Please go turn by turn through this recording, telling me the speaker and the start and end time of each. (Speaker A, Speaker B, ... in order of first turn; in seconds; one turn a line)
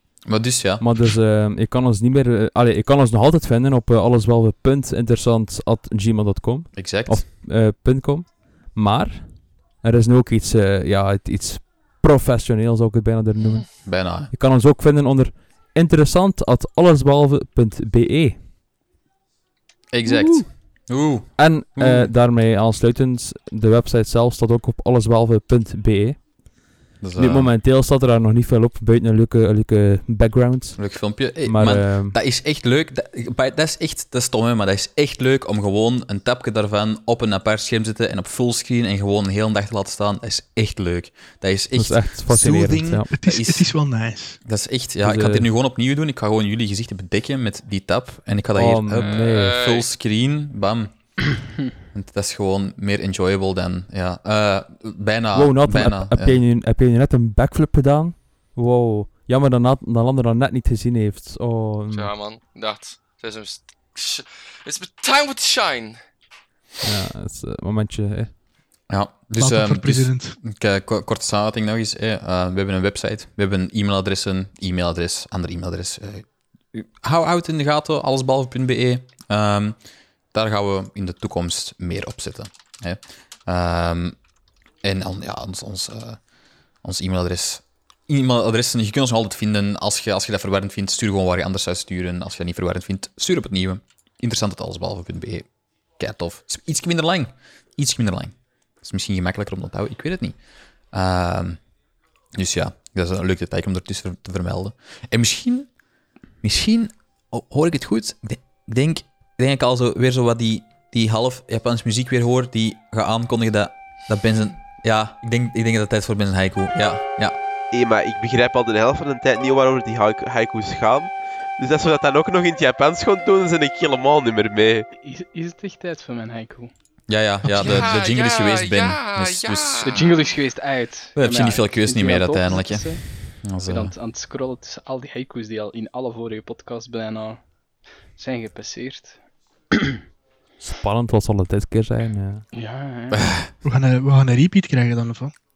Speaker A: 0.2-0.8
Speaker B: 0.8-18.4
Speaker A: 6.7-7.2
Speaker A: 13.8-14.3
Speaker A: 19.9-22.1
Speaker B: 20.0-20.4
Speaker B: 21.4-26.3
Speaker A: 27.0-27.5
Speaker B: 27.1-30.8
Speaker A: 30.8-43.7
Speaker B: 31.4-32.2
Speaker B: 41.8-43.1
Speaker C: 43.2-44.4
Speaker A: 44.4-51.1
Speaker B: 45.0-45.5
Speaker B: 48.5-49.5
Speaker D: 49.0-49.9
Speaker A: 51.9-56.4
Speaker B: 55.3-62.1
Speaker D: 61.9-66.0
Speaker B: 66.8-68.3
Speaker A: 68.9-79.8
Speaker C: 69.4-70.3
Speaker A: 80.3-84.2
Speaker A: 84.8-86.2
Speaker A: 86.8-95.5
Speaker A: 96.0-100.4
Speaker A: 100.9-101.6
Speaker A: 102.3-105.7
Speaker A: 106.4-117.4
Speaker E: 117.7-124.9
Speaker F: 125.0-126.7
Speaker A: 127.1-129.9
Speaker C: 127.4-127.9
Speaker D: 127.5-130.2
Speaker F: 129.8-137.4
Speaker A: 131.2-133.9
Speaker F: 138.2-139.2
Speaker F: 139.7-140.0
Speaker B: 140.6-142.4
Speaker F: 142.5-143.3
Speaker A: 143.1-143.5
Speaker C: 143.6-145.3